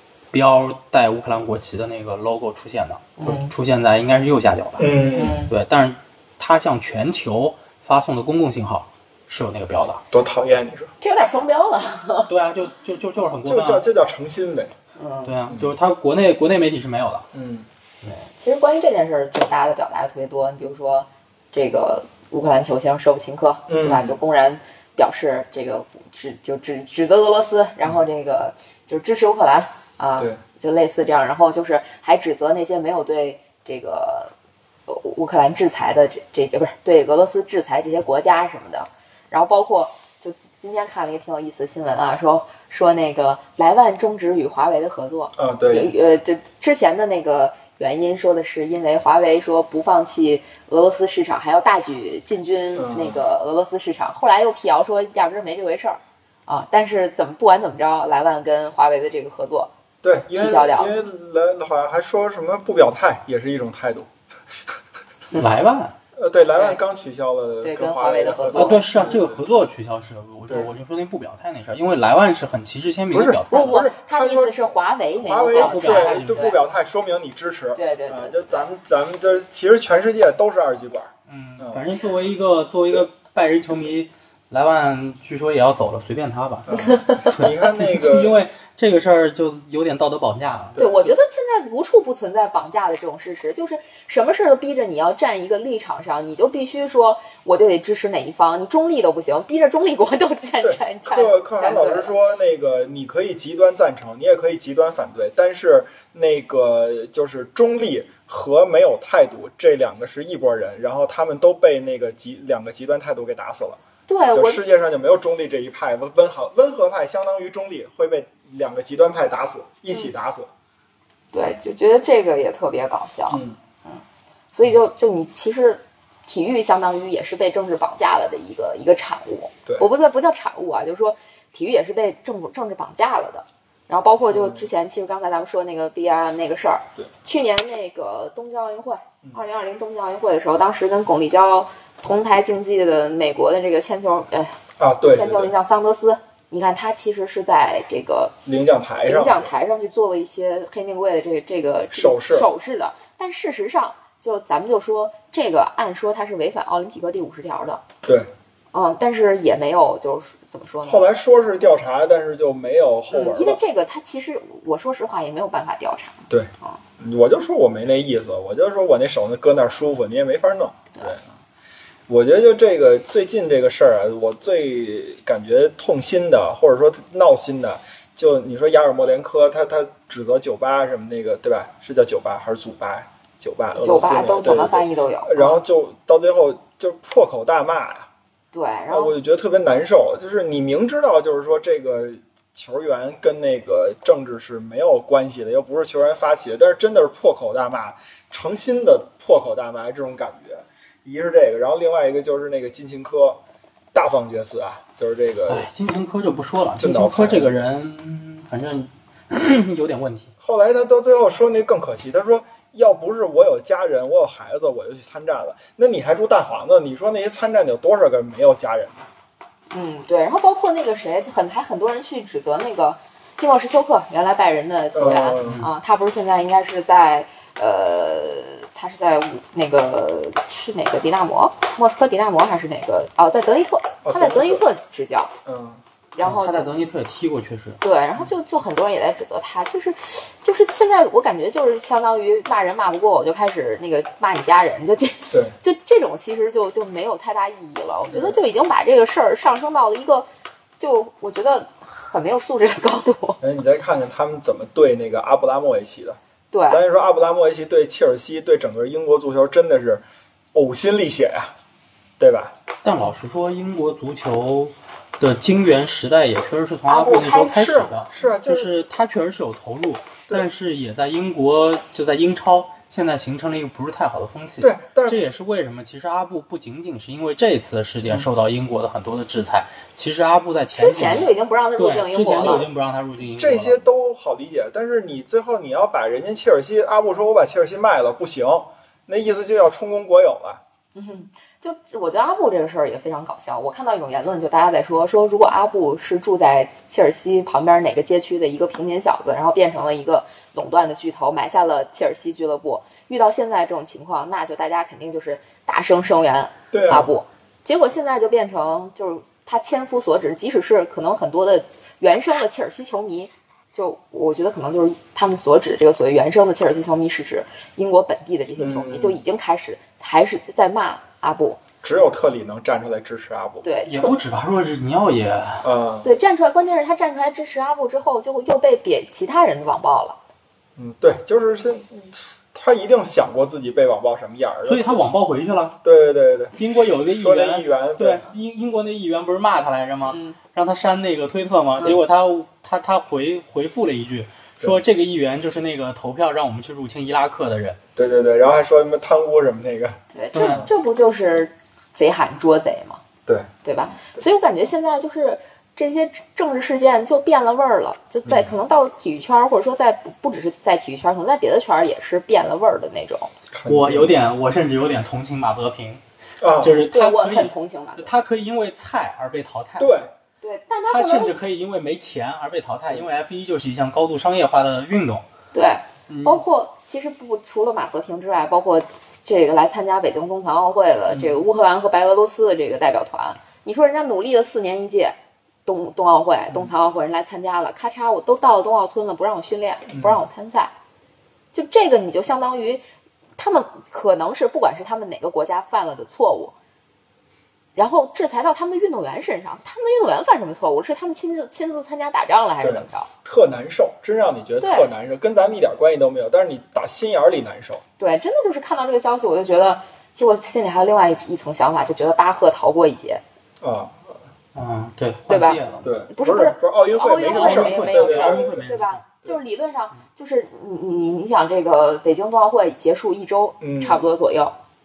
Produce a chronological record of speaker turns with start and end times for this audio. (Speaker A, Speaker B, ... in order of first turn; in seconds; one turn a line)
Speaker A: 0.3-10.0
Speaker B: 3.2-3.5
Speaker C: 4.8-5.4
Speaker B: 5.1-5.5
Speaker C: 10.1-10.9
Speaker B: 11.0-12.3
Speaker A: 12.3-13.8
Speaker C: 13.4-14.7
Speaker B: 15.0-15.3
Speaker A: 15.2-17.3
Speaker C: 15.5-15.7
Speaker C: 17.3-17.7
Speaker B: 18.1-34.3
Speaker C: 23.7-24.2
Speaker B: 34.9-59.7
Speaker C: 45.4-45.9
Speaker C: 52.7-53.2
Speaker C: 60.0-64.1
Speaker B: 60.3-61.0
Speaker A: 65.3-65.9
Speaker C: 66.2-69.4
Speaker B: 66.5-66.8
Speaker B: 67.6-68.8
Speaker A: 68.5-73.8
Speaker C: 73.1-74.6
Speaker B: 73.5-76.6
Speaker C: 75.2-81.8
Speaker A: 75.5-76.5
Speaker B: 77.7-78.7
Speaker A: 81.3-90.9
Speaker C: 86.7-88.3
Speaker B: 86.7-87.2
Speaker C: 90.7-91.1
Speaker B: 90.8-102.2
Speaker C: 100.6-113.8
Speaker B: 114.1-114.6
Speaker C: 114.3-120.5
Speaker B: 121.3-124.0
Speaker C: 123.3-123.6
Speaker B: 124.5-144.6
Speaker C: 134.3-134.7
Speaker C: 144.8-145.5
Speaker B: 145.1-148.4
Speaker C: 148.4-149.5
Speaker B: 149.1-157.8
Speaker C: 151.9-152.5
Speaker C: 158.0-158.3
Speaker B: 158.7-161.1
Speaker C: 160.8-163.6
Speaker B: 163.1-166.8
Speaker C: 166.3-171.3
Speaker C: 172.1-188.1
Speaker B: 183.7-185.6
Speaker B: 188.5-189.1
Speaker C: 188.9-203.4
Speaker C: 203.9-205.7
Speaker A: 205.5-210.3
Speaker C: 206.8-207.5
Speaker C: 210.4-219.1
Speaker B: 219.7-235.3
Speaker C: 224.9-225.7
Speaker A: 225.4-225.7
Speaker C: 234.0-234.6
Speaker C: 235.4-235.8
Speaker B: 236.1-236.7
Speaker A: 236.2-237.8
Speaker B: 237.8-253.4
Speaker C: 245.3-245.5
Speaker C: 248.1-248.4
Speaker C: 253.4-261.5
Speaker B: 256.5-256.8
Speaker C: 262.2-262.5
Speaker A: 262.8-283.8
Speaker B: 266.9-267.9
Speaker C: 267.5-268.7
Speaker C: 274.6-275.2
Speaker B: 280.8-282.6
Speaker C: 283.3-290.6
Speaker B: 290.9-321.6
Speaker C: 306.7-307.1
Speaker C: 318.6-319.2
Speaker C: 321.8-323.6
Speaker B: 323.6-324.2
Speaker A: 323.9-325.7
Speaker C: 325.6-326.1
Speaker B: 326.0-330.2
Speaker C: 330.8-335.0
Speaker A: 334.6-335.8
Speaker C: 335.8-338.3
Speaker A: 336.6-347.8
Speaker B: 340.1-340.4
Speaker C: 347.9-350.7
Speaker B: 350.1-353.0
Speaker A: 350.3-350.6
Speaker B: 353.6-363.3
Speaker C: 358.2-358.5
Speaker C: 363.5-364.1
Speaker A: 363.6-366.0
Speaker C: 366.4-366.8
Speaker A: 366.6-370.0
Speaker B: 366.9-368.1
Speaker C: 369.8-370.1
Speaker B: 370.4-371.4
Speaker A: 370.9-375.2
Speaker B: 375.5-390.7
Speaker A: 376.1-376.4
Speaker A: 381.1-381.4
Speaker C: 389.9-390.2
Speaker B: 391.5-392.8
Speaker B: 393.4-396.5
Speaker B: 397.8-403.1
Speaker C: 402.6-407.8
Speaker B: 404.6-404.9
Speaker B: 408.0-413.2
Speaker C: 413.6-414.2
Speaker A: 414.5-415.9
Speaker B: 415.3-424.6
Speaker C: 415.8-418.6
Speaker A: 417.2-419.0
Speaker C: 423.6-424.0